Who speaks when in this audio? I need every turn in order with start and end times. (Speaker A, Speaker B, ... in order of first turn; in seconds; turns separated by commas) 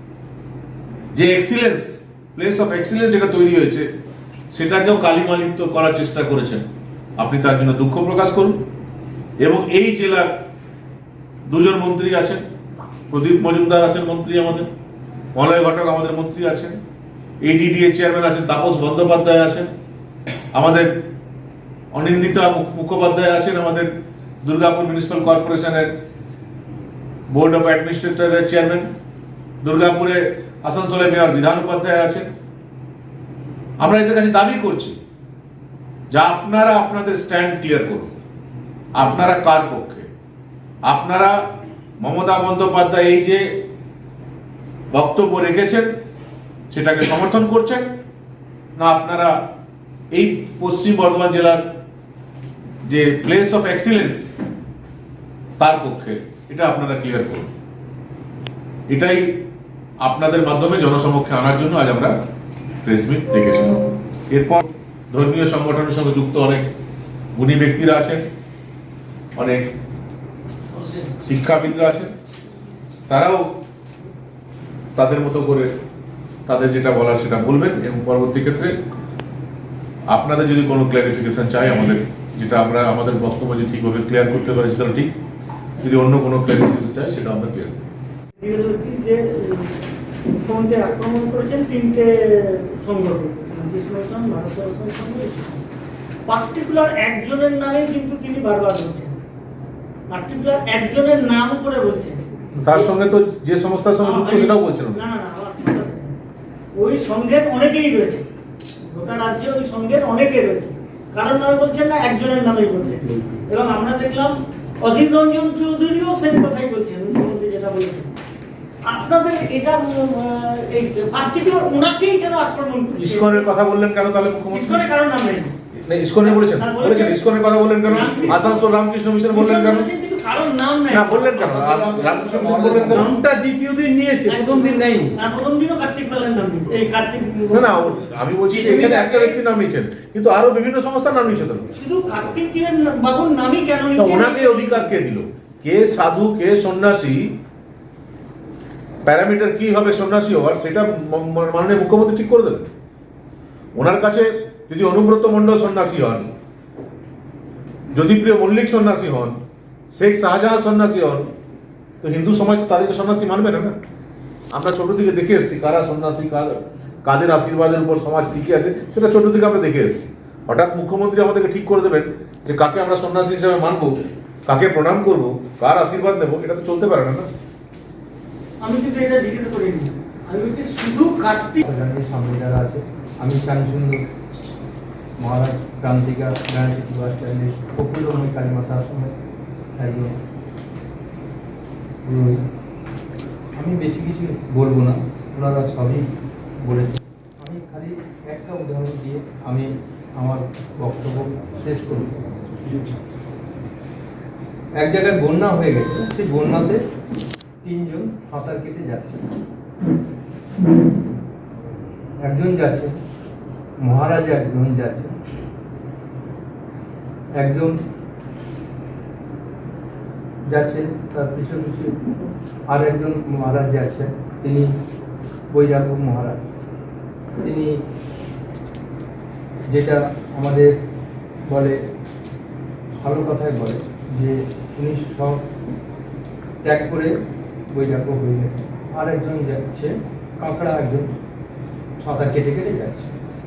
Speaker A: 1.1-3.9, Speaker A: 4.5-6.7, Speaker A: 7.2-8.6, Speaker A: 9.4-10.4, Speaker A: 11.5-12.4, Speaker A: 13.1-14.7, Speaker A: 15.3-16.8, Speaker A: 17.4-19.7, Speaker A: 20.5-21.0, Speaker A: 21.9-23.9, Speaker A: 24.4-25.9, Speaker A: 27.3-28.9, Speaker A: 29.6-32.3, Speaker A: 33.8-35.0, Speaker A: 36.1-38.1, Speaker A: 39.0-40.1, Speaker A: 40.9-41.4, Speaker A: 42.0-43.7, Speaker A: 44.9-45.9, Speaker A: 46.7-48.0, Speaker A: 48.8-49.5, Speaker A: 50.1-51.7, Speaker A: 52.9-54.4, Speaker A: 55.6-57.5, Speaker A: 58.9-59.5, Speaker A: 60.0-62.2, Speaker A: 62.8-66.7, Speaker A: 67.4-68.2, Speaker A: 69.4-69.7, Speaker A: 70.8-72.1, Speaker A: 73.1-73.6, Speaker A: 75.0-75.7, Speaker A: 76.5-78.8, Speaker A: 80.1-85.2, Speaker A: 85.8-87.8, Speaker B: 88.4-95.7, Speaker B: 96.3-99.2, Speaker B: 100.1-103.0, Speaker A: 102.6-105.0, Speaker B: 104.0-106.2, Speaker B: 106.8-108.3, Speaker B: 108.9-118.2, Speaker B: 118.8-123.5, Speaker A: 123.0-124.9, Speaker B: 124.5-125.5, Speaker A: 125.8-129.9, Speaker B: 126.2-127.3, Speaker B: 127.8-128.7, Speaker B: 129.3-132.7, Speaker A: 130.9-133.3, Speaker B: 134.3-138.0, Speaker A: 137.5-141.7, Speaker B: 141.8-144.9, Speaker A: 144.0-147.4, Speaker A: 149.0-152.7, Speaker A: 153.8-156.3, Speaker A: 157.9-159.4, Speaker A: 159.9-161.3, Speaker A: 162.0-163.8, Speaker A: 164.5-177.3, Speaker B: 178.6-181.6, Speaker C: 181.7-184.0, Speaker C: 185.2-189.1, Speaker C: 189.8-190.1, Speaker C: 192.1-192.4, Speaker C: 193.6-196.1, Speaker C: 196.6-202.1, Speaker C: 204.8-206.8, Speaker C: 207.6-209.2, Speaker C: 212.2-212.9, Speaker C: 213.8-215.1, Speaker C: 217.4-217.8, Speaker C: 220.5-221.9, Speaker C: 222.7-224.7, Speaker C: 225.5-226.4, Speaker C: 227.4-227.8, Speaker C: 229.7-230.8, Speaker C: 231.5-231.8, Speaker C: 233.0-235.4, Speaker C: 236.6-237.1, Speaker C: 237.7-241.1, Speaker C: 242.0-243.1